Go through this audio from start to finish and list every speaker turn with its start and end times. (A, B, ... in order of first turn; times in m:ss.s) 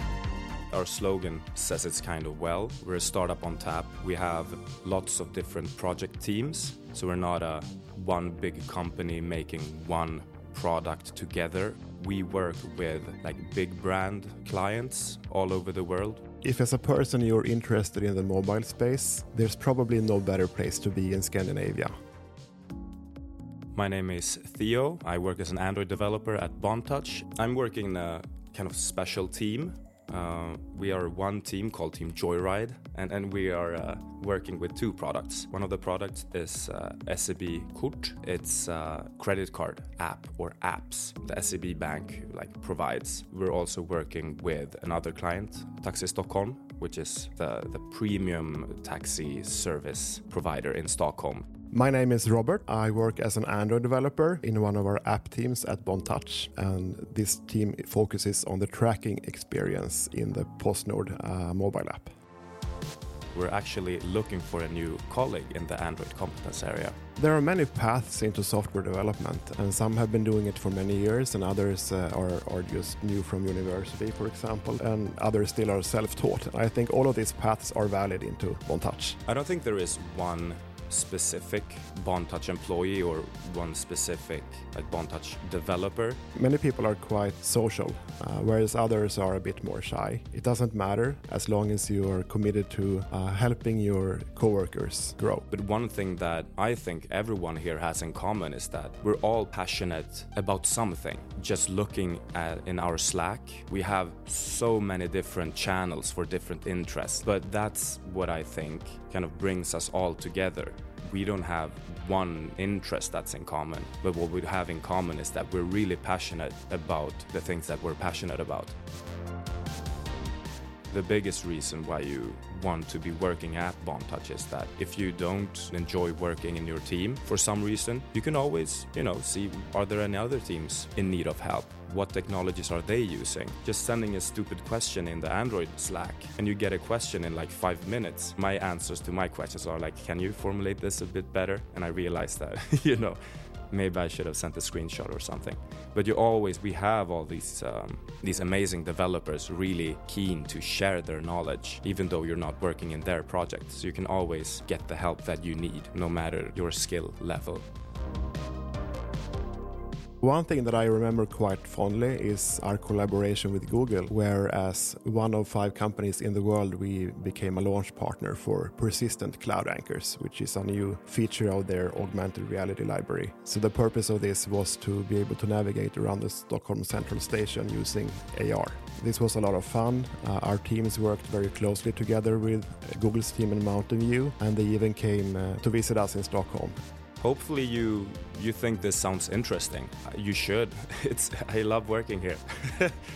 0:00.7-0:16.2 A
0:16.4-0:21.9 B
0:23.7-0:51.5 A
0:51.7-1:02.1 B
1:03.3-1:07.0 A
1:07.2-1:19.2 B
1:19.3-1:26.2 A
1:26.4-1:35.5 B
1:35.5-1:58.8 A
2:00.9-2:37.7 A
2:40.2-3:06.8 B
3:07.2-3:13.0 A